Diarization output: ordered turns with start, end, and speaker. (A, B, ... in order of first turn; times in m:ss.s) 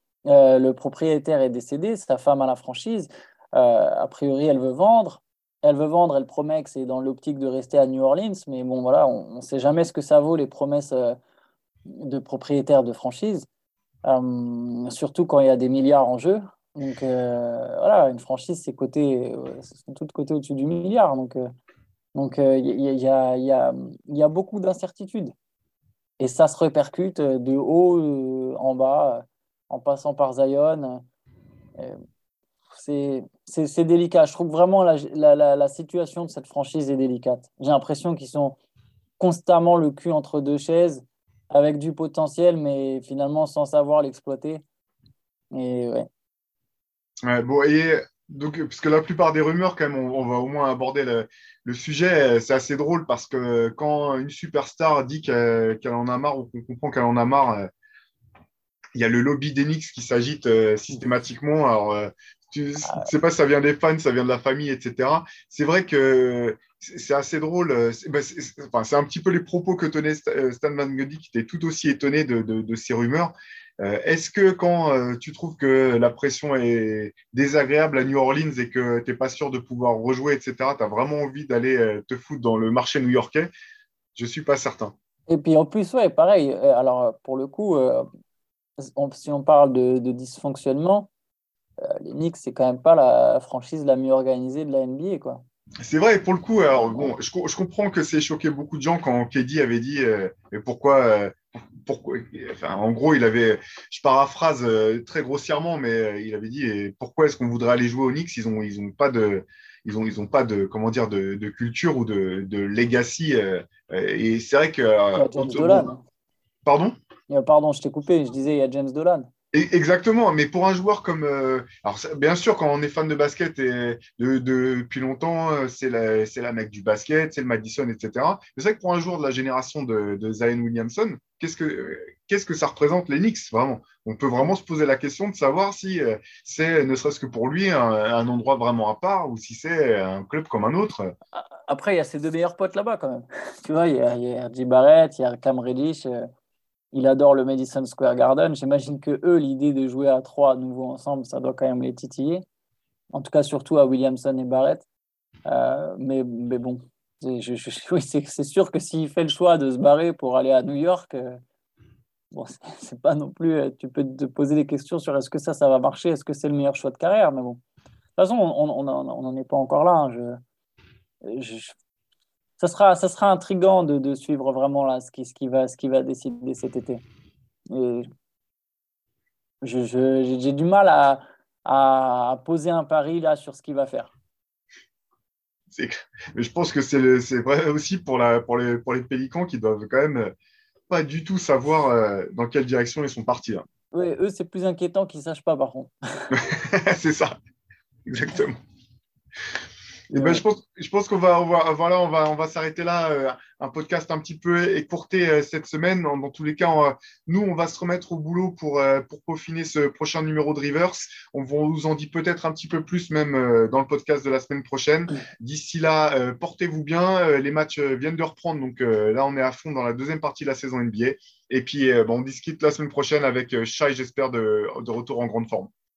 0:00.2-0:11.2 A
0:11.9-0:13.5 A
0:14.0-0:21.4 A
0:22.1-0:25.3 A
0:26.2-0:31.0 A
0:32.7-0:38.6 A
0:39.2-0:44.6 A
0:45.5-0:46.1 A
0:47.2-0:57.7 B
0:58.9-1:23.5 B
1:24.2-1:24.9 B
1:25.3-1:28.0 A
1:28.8-1:31.1 A
1:31.8-1:35.4 A
1:35.8-1:55.9 B
1:55.1-1:56.0 A
1:56.6-1:56.9 B
1:57.3-1:59.3 A
1:59.5-2:21.1 B
2:21.3-2:26.3 A
2:26.9-2:32.4 A
2:33.1-2:34.8 A
2:35.5-2:41.4 A
2:42.3-2:47.6 A
2:48.2-2:50.4 A
2:51.2-2:51.7 A
2:52.6-2:57.0 A
2:57.7-2:58.1 A
2:59.6-3:04.1 A
3:05.7-3:10.3 B
3:10.9-3:13.6 B
3:13.9-3:16.3 A
3:16.3-3:17.3 B
3:18.1-3:18.6 B
3:20.1-3:45.7 B